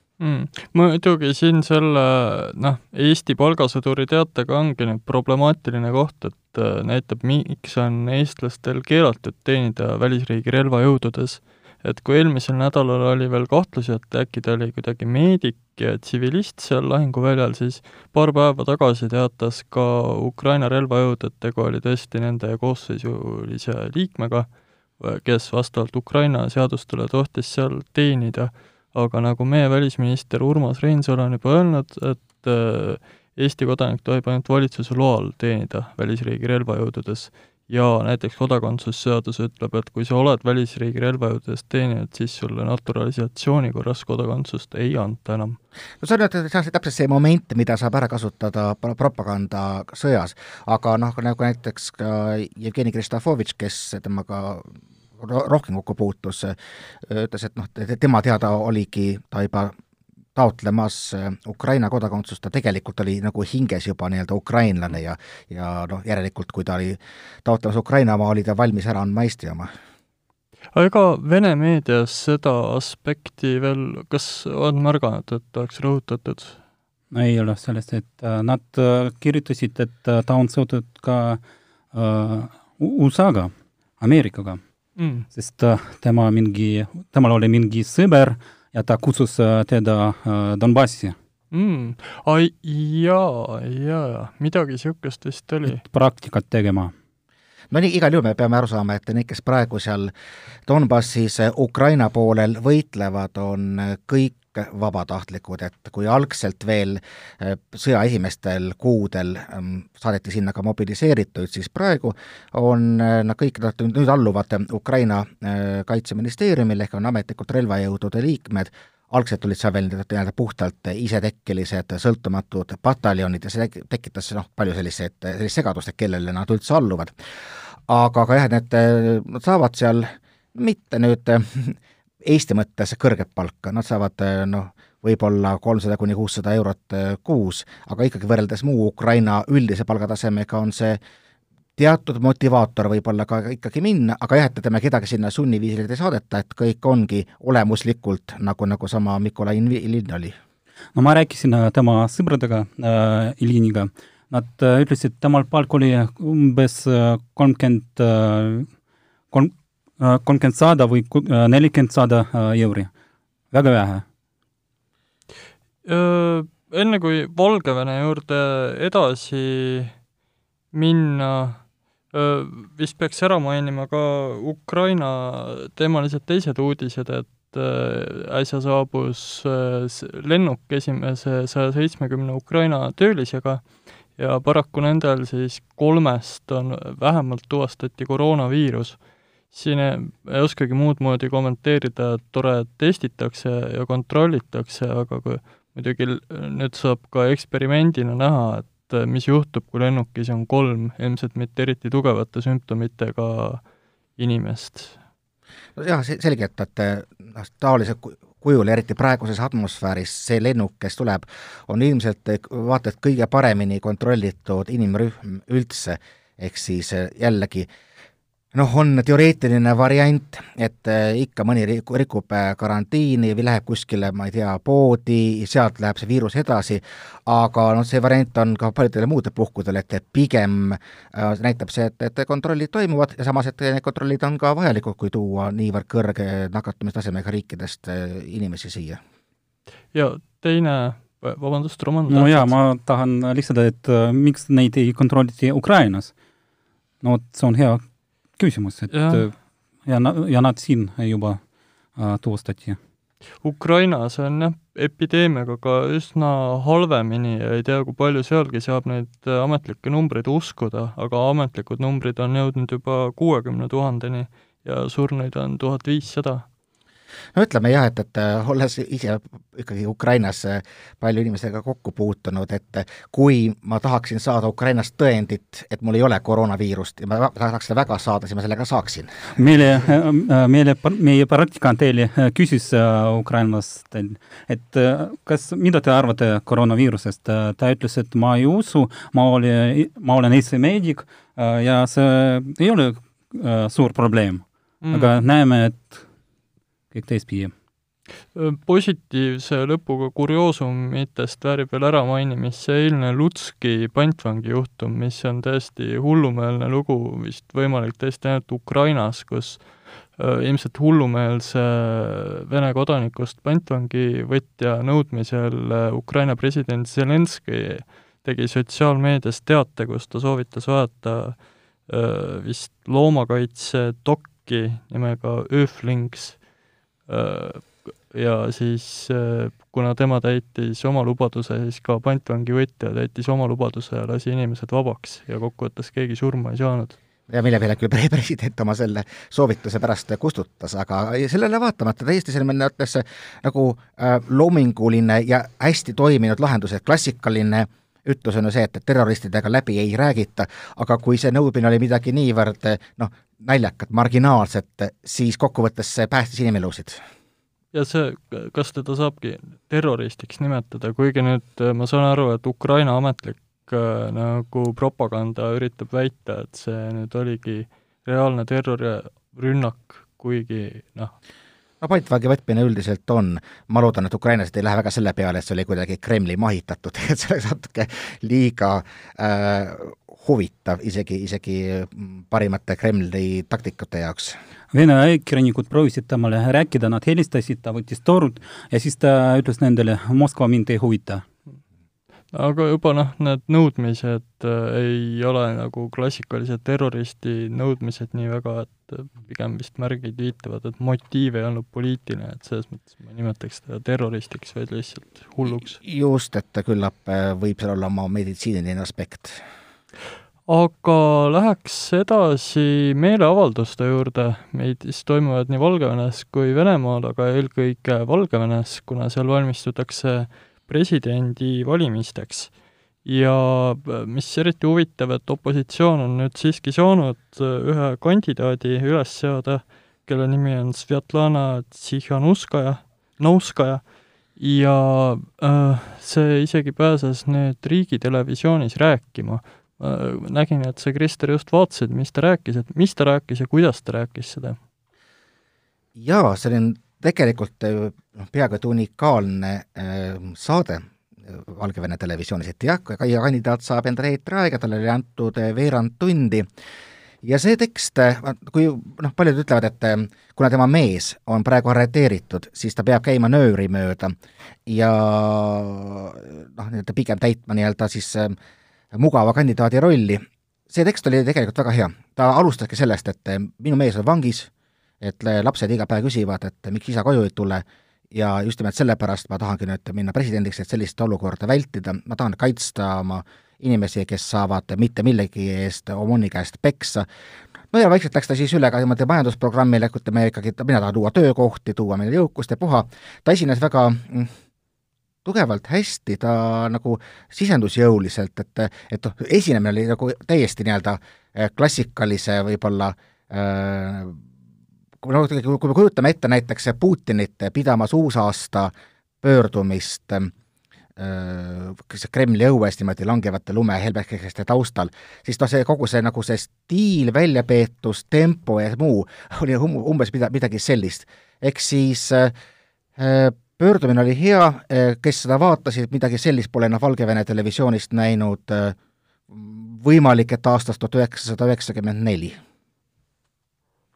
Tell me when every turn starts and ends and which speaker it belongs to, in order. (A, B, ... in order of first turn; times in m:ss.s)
0:00.2-0:45.6 A
0:46.0-0:59.7 B
1:00.3-1:09.7 B
1:10.7-1:16.6 A
1:17.1-1:21.4 C
1:21.9-1:24.6 C
1:25.0-1:25.3 A
1:25.3-1:31.2 C
1:31.5-1:35.8 A
1:35.7-1:36.9 C
1:37.7-1:40.1 B
1:40.7-2:07.1 B
2:07.9-2:21.0 B
2:21.8-2:30.3 B
2:30.9-2:38.7 C
2:39.3-2:42.9 C
2:43.5-2:44.0 C
2:45.8-2:49.9 A
2:50.7-2:51.6 A
2:52.1-3:03.6 A
3:04.2-3:09.0 A
3:09.5-3:23.6 A
3:24.2-3:25.0 A
3:25.8-3:37.7 B
3:38.5-3:59.0 B
3:59.9-4:02.5 A
4:02.1-4:06.1 C
4:07.0-4:07.8 C
4:08.4-4:09.3 C
4:08.9-4:09.2 A
4:09.8-4:11.4 C
4:12.0-4:12.8 C
4:13.4-4:26.4 A
4:27.3-4:39.3 B
4:39.4-4:56.0 C
4:54.8-4:55.2 A
4:56.9-4:57.5 C
4:58.3-5:26.4 A
5:27.1-5:37.0 A
5:37.3-5:57.0 B
5:57.7-6:11.1 A
6:11.8-6:24.4 B
6:24.7-6:31.2 C
6:32.3-6:45.8 A
6:45.4-6:49.4 B
6:50.5-7:02.5 A
7:03.0-7:13.8 A
7:14.4-7:24.6 A
7:26.0-7:36.5 B
7:37.2-7:44.1 B
7:44.6-7:48.4 B
7:48.9-7:54.5 B
7:55.0-8:07.0 B
8:07.7-8:14.3 B
8:15.2-8:24.2 B
8:25.0-8:30.3 B
8:31.0-8:42.3 B
8:43.0-8:48.8 B
8:49.3-8:52.4 B